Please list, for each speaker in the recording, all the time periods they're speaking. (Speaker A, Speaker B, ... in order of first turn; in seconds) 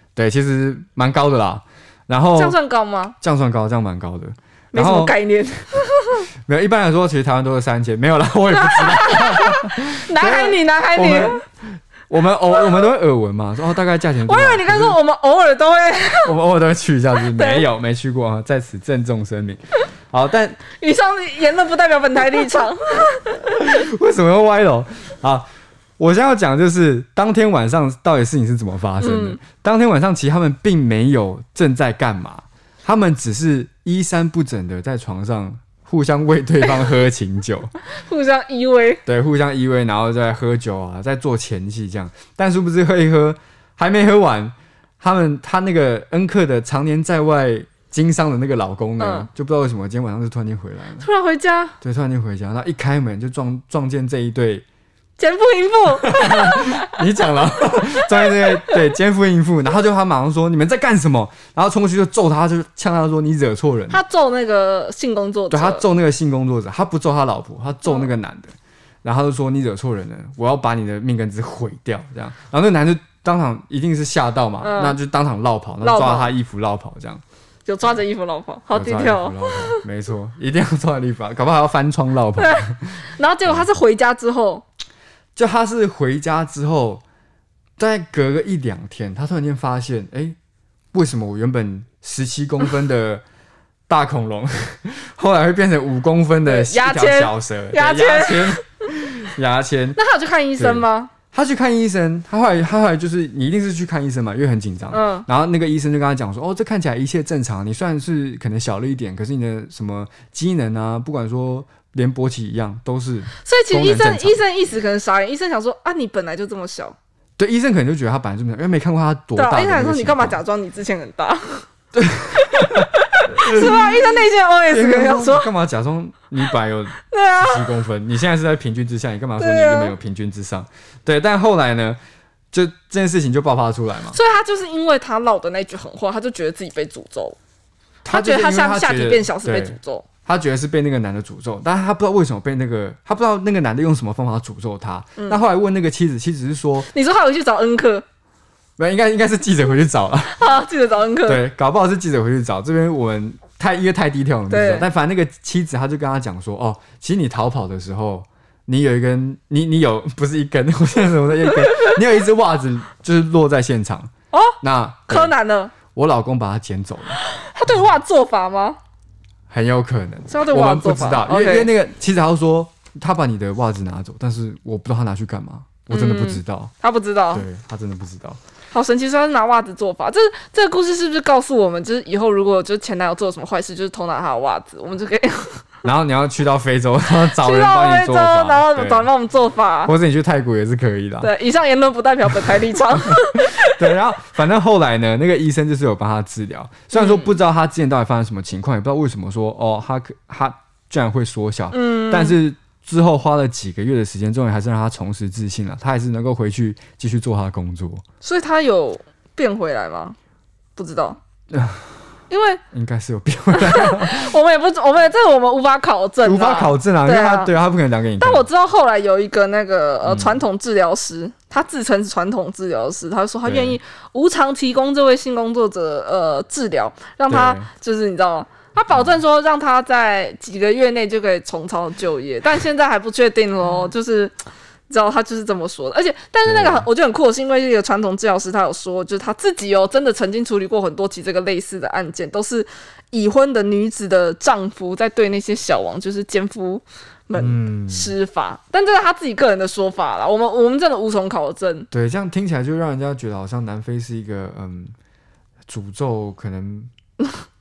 Speaker A: 0.2-2.6, 3.2-5.2, 6.4-15.0, 16.2-20.6, 23.4-37.7, 39.1-51.1, 51.8-54.6, 56.1-64.0, 65.5-77.2, 78.7-83.7, 85.3-87.0, 87.8-90.4, 90.9-93.2, 93.9-100.0, 100.6-114.4, 117.4-120.4, 121.9-124.1, 124.7-132.0, 132.5-134.2, 138.0-146.9, 148.8-150.6, 151.2-164.1, 164.6-165.3, 165.9-167.2, 169.5-176.7, 177.3-178.4, 185.8-189.1, 189.8-191.3, 193.1-208.0, 211.5-211.9, 212.7-214.4, 216.2-218.5, 220.0-220.4, 223.4-223.8, 227.3-227.7, 236.4-236.9, 247.3-248.2, 251.9-254.9, 255.7-256.9
Speaker B: 2.4-3.2, 4.7-6.3, 8.5-11.4, 14.3-16.4, 17.2-17.7, 20.7-23.5, 29.0-29.4, 36.6-36.9, 37.8-39.0, 49.0-49.3, 51.0-51.8, 55.2-57.0, 57.9-58.8, 63.9-65.8, 74.6-75.0, 75.8-76.3, 77.7-79.8, 82.4-84.7, 96.4-98.7, 100.0-101.1, 104.9-105.3, 113.4-117.0, 119.3-121.7, 122.4-125.5, 127.1-127.7, 129.4-130.0, 134.1-137.4, 138.1-140.1, 146.8-148.1, 150.2-151.4, 154.5-154.9, 165.1-165.7, 167.1-168.8, 170.3-171.7, 175.9-177.5, 178.7-185.7, 187.2-189.9, 191.2-193.8, 196.9-197.3, 201.7-202.4, 208.2-210.2, 210.8-211.2, 212.3-212.6, 213.5-217.6, 218.2-251.9